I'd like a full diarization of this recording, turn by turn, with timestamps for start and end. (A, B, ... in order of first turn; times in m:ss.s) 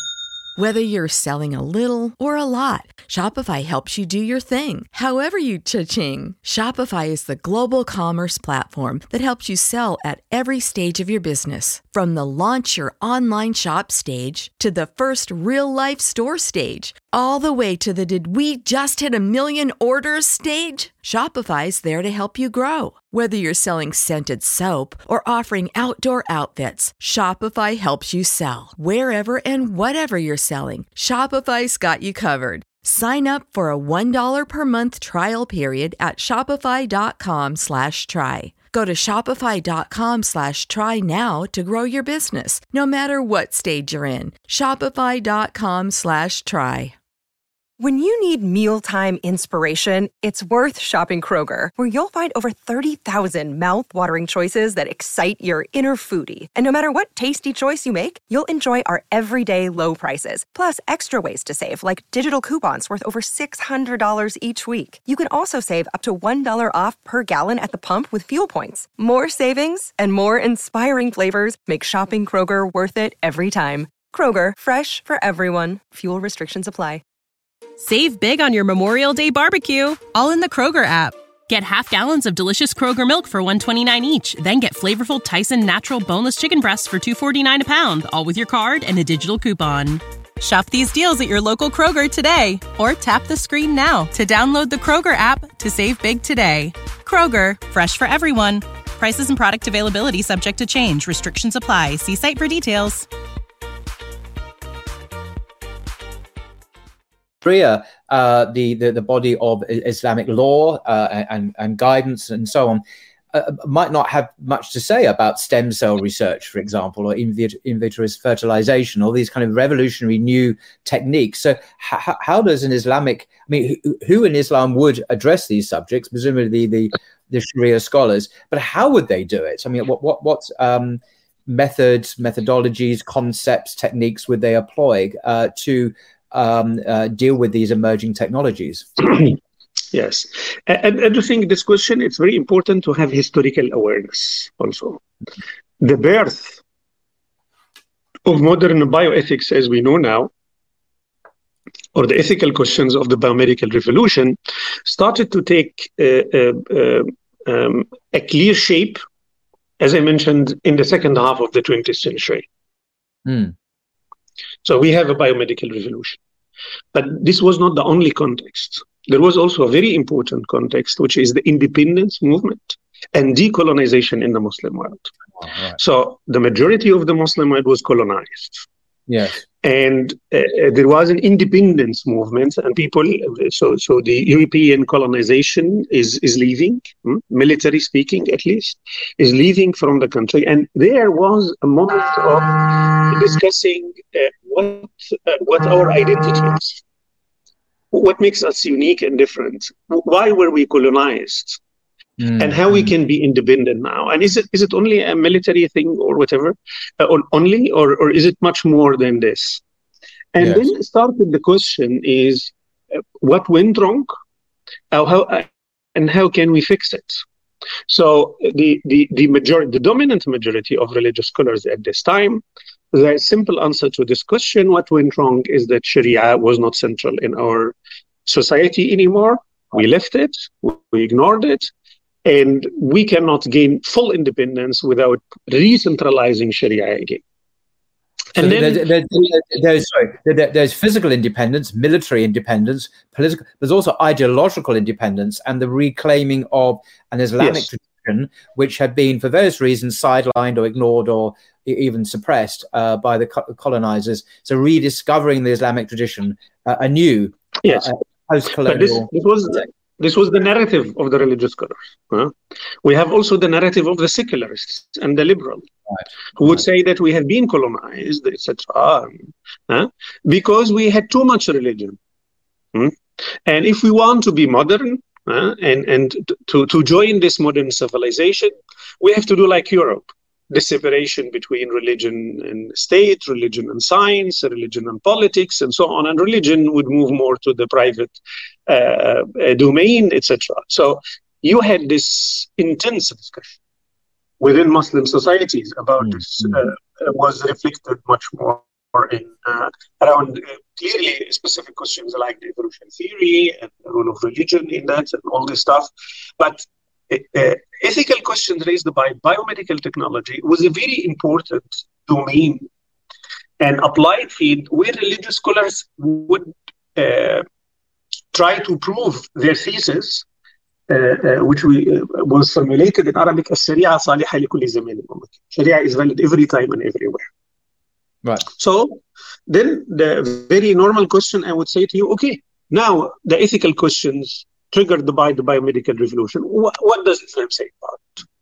0:00.6-0:47.0 A
0:47.8-1:17.0 B
1:17.8-1:43.1 C
1:47.4-1:52.8 D
1:53.3-2:18.9 D
2:19.9-2:25.0 E
2:25.8-2:26.6 E
2:28.2-2:30.3 E
2:32.0-2:39.0 E
2:39.8-2:42.5 E
2:43.3-2:43.5 D
2:44.6-2:46.2 E
2:46.9-2:55.1 E
2:55.4-2:55.8 D
2:55.8-2:58.6 E
2:59.1-2:59.4 D
2:59.6-3:16.8 E
3:17.9-3:21.6 E
3:22.2-3:22.9 D
3:22.4-3:29.6 E
3:30.3-3:32.5 E
3:30.4-3:30.7 D
3:33.2-3:34.1 E
3:34.9-3:37.2 E
3:37.9-3:47.8 E
3:48.3-3:51.7 E
3:52.2-3:57.2 E
3:58.4-3:58.9 E
3:58.4-4:19.1 D
4:07.4-4:07.7 E
4:17.6-4:17.9 E
4:18.7-4:25.7 E
4:26.4-4:32.0 E
4:32.7-4:53.6 E
4:54.4-5:12.7 E
4:56.0-4:56.6 D
5:13.6-5:17.4 E
5:18.3-5:20.3 E
5:20.9-5:27.2 E
5:28.5-5:38.2 E